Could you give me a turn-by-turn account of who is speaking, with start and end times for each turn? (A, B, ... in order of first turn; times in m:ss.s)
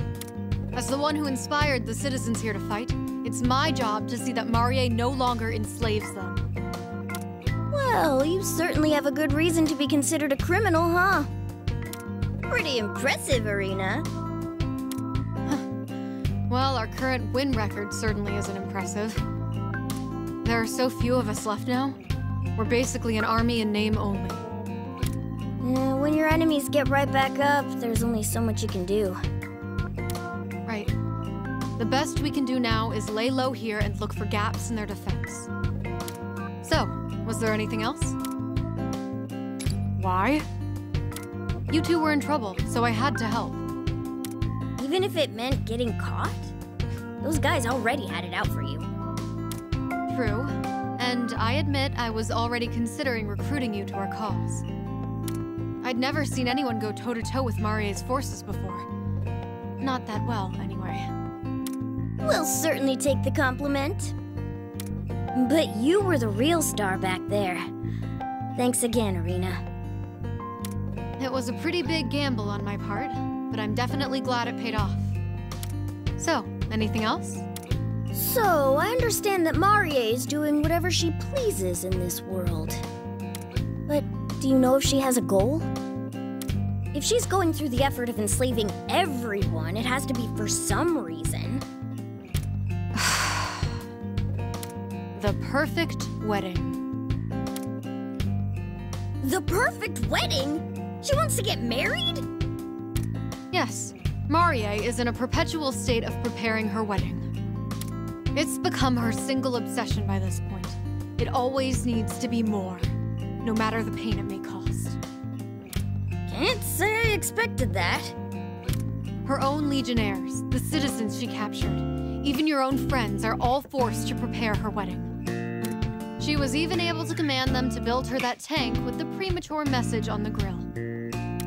0:00.7-0:06.5 A
0:07.7-0:11.3 B
0:12.4-0:14.1 B
0:16.5-0:19.2 A
0:20.4-0:22.0 A
0:22.6-0:24.4 A
0:25.6-0:29.2 B
0:30.7-0:30.9 A
0:31.8-0:35.5 A
0:36.6-0:38.2 A
0:40.0-0:40.4 A
0:41.7-0:43.6 A
0:44.8-0:46.5 B
0:47.2-0:48.9 B
0:50.1-0:54.6 A
0:55.8-0:58.8 A
0:59.8-1:01.1 A
1:02.2-1:04.1 B
1:05.3-1:07.7 B
1:08.5-1:09.6 B
1:11.2-1:15.2 A
1:16.2-1:17.4 A
1:18.1-1:22.8 B
1:23.9-1:25.7 B
1:26.9-1:31.6 B
1:32.9-1:33.8 A
1:35.1-1:36.8 A
1:39.2-1:42.2 B
1:43.5-1:47.2 A
1:48.3-1:52.9 A
1:53.4-1:55.0 A
1:56.3-1:58.2 B
1:59.2-2:05.1 A
2:06.2-2:10.7 A